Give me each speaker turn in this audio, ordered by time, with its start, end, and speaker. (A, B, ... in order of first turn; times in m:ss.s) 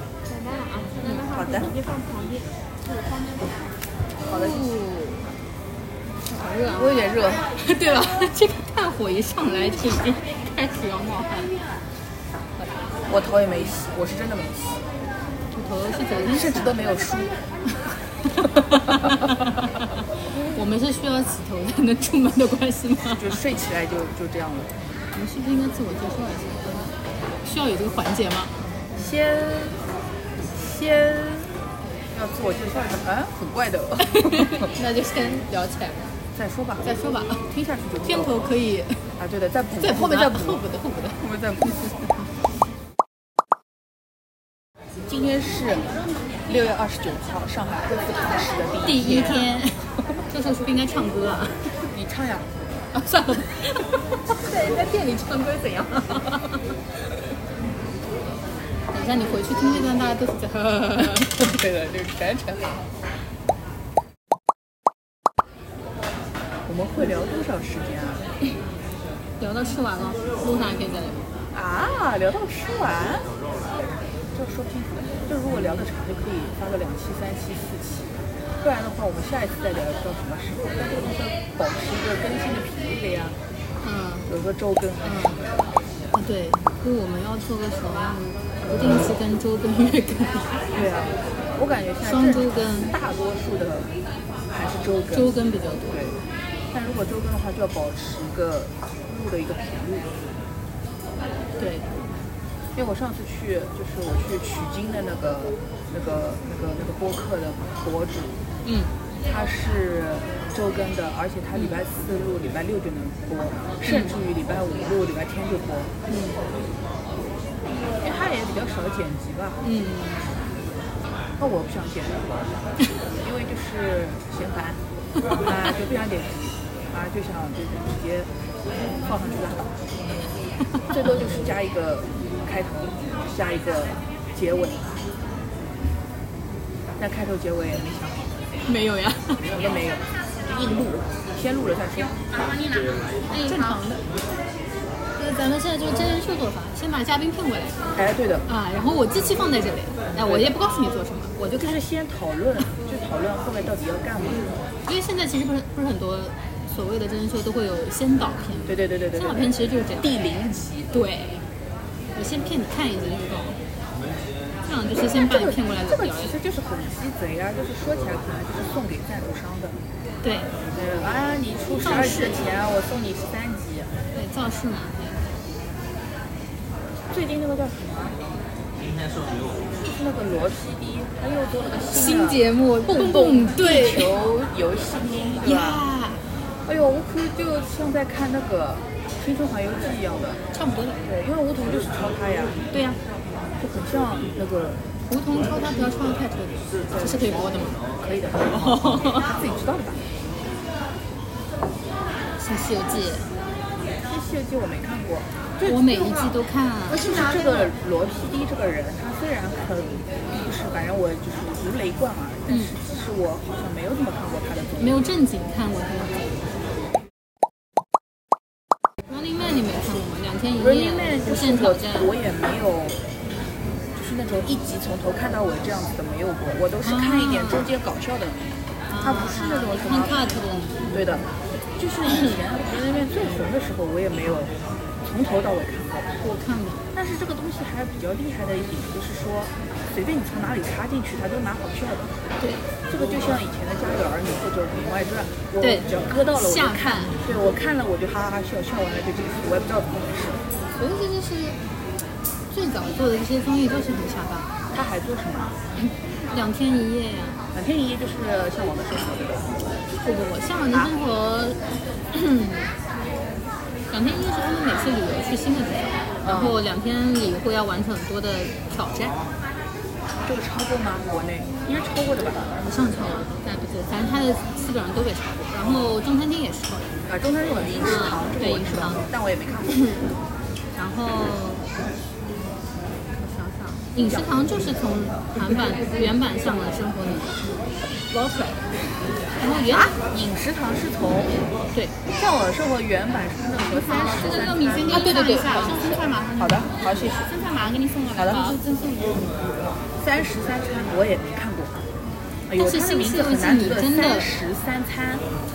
0:00.2-0:03.7 A
0:01.2-0:01.7 B
0:04.3-0:04.6 B
0:04.3-0:05.3 C
0:06.2-0:07.0 C
0:06.7-0:07.4 B
0:07.5-0:11.5 C
0:13.1-0:14.8 B
0:15.5-0:16.8 C
0:16.2-0:17.3 B
0:17.8-0:19.8 C
0:18.6-0:19.3 B
0:20.5-0:23.4 C
0:23.1-0:24.7 B
0:25.1-0:26.9 C
0:27.4-0:28.5 C
0:28.9-0:29.8 B
0:30.5-0:31.6 B
0:32.1-0:34.7 B
0:34.0-0:36.1 C
0:36.3-0:36.9 B
0:36.8-0:37.4 C
0:37.5-0:38.4 B
0:38.0-0:39.1 C
0:39.2-0:40.6 B
0:39.8-0:41.2 C
0:41.2-0:41.9 B
0:45.0-0:49.4 B
0:48.8-0:51.7 C
0:51.9-0:52.5 B
0:52.9-0:56.6 C
0:58.9-1:01.5 C
1:01.2-1:02.9 B
1:06.6-1:08.2 B
1:09.4-1:11.2 C
1:11.5-1:13.3 B
1:14.3-1:23.4 B
1:23.8-1:24.3 C
1:24.3-1:25.6 B
1:25.0-1:25.4 C
1:26.1-1:30.6 C
1:30.7-1:33.9 B
1:32.0-1:33.0 C
1:34.5-1:35.3 B
1:35.1-1:36.1 C
1:35.9-1:36.2 B
1:36.7-1:40.1 B
1:41.6-1:42.0 C
1:42.7-1:48.4 B
1:48.6-1:48.9 C
1:49.2-1:55.9 B
1:53.8-1:54.2 C
1:56.1-1:56.4 C
1:58.0-1:59.6 B
1:59.6-2:00.3 C
2:01.4-2:02.5 B
2:03.1-2:04.8 B
2:05.4-2:08.3 B
2:08.8-2:09.8 B
2:10.9-2:15.0 B
2:17.0-2:18.5 B
2:18.6-2:19.5 C
2:19.5-2:22.3 B
2:23.3-2:24.0 C
2:23.3-2:23.9 B
2:25.2-2:27.8 C
2:27.9-2:28.4 B
2:28.4-2:31.8 C
2:30.2-2:30.5 B
2:31.4-2:34.5 B
2:34.8-2:40.1 C
2:38.6-2:40.9 B
2:40.9-2:41.4 C
2:42.1-2:43.6 C
2:44.6-2:46.3 C
2:45.1-2:49.8 B
2:50.2-2:50.5 C
2:50.7-2:53.9 B
2:51.8-2:52.4 C
2:54.1-2:55.4 C
2:57.1-2:58.2 B
2:59.7-3:05.8 B
3:01.9-3:04.1 C
3:05.4-3:06.2 C
3:06.6-3:10.4 B
3:10.5-3:11.0 C
3:11.0-3:12.7 B
3:13.6-3:14.8 B
3:15.1-3:17.8 C
3:16.9-3:20.0 B
3:18.5-3:19.3 C
3:22.4-3:23.3 C
3:24.0-3:35.0 B
3:25.6-3:27.5 C
3:32.5-3:32.7 C
3:34.8-3:36.6 C
3:39.1-3:42.1 C
3:40.6-3:43.0 B
3:43.9-3:56.2 B
3:46.8-3:47.7 C
3:48.9-3:51.0 C
3:52.0-3:52.4 C
3:56.2-3:56.9 C
3:56.9-4:02.2 B
4:02.9-4:10.4 B
4:05.6-4:07.2 C
4:10.7-4:11.6 C
4:12.5-4:14.5 C
4:14.7-4:15.5 B
4:15.8-4:17.4 C
4:17.5-4:19.6 B
4:20.0-4:21.6 C
4:22.1-4:22.7 C
4:23.9-4:29.2 C
4:26.2-4:26.6 B
4:30.2-4:32.5 B
4:32.6-4:37.0 C
4:35.6-4:35.9 B
4:37.0-4:39.8 B
4:37.8-4:39.0 C
4:40.7-4:41.7 C
4:43.2-4:47.4 C
4:44.0-4:44.3 B
4:45.4-4:45.7 B
4:48.1-4:48.7 C
4:49.4-4:49.9 C
4:49.7-4:51.4 B
4:52.1-4:57.3 B
4:53.8-4:56.7 C
4:54.4-4:55.1 A
4:58.1-4:58.6 B
4:58.2-4:59.1 C
5:00.0-5:01.8 B
5:02.5-5:05.2 B
5:02.6-5:04.3 C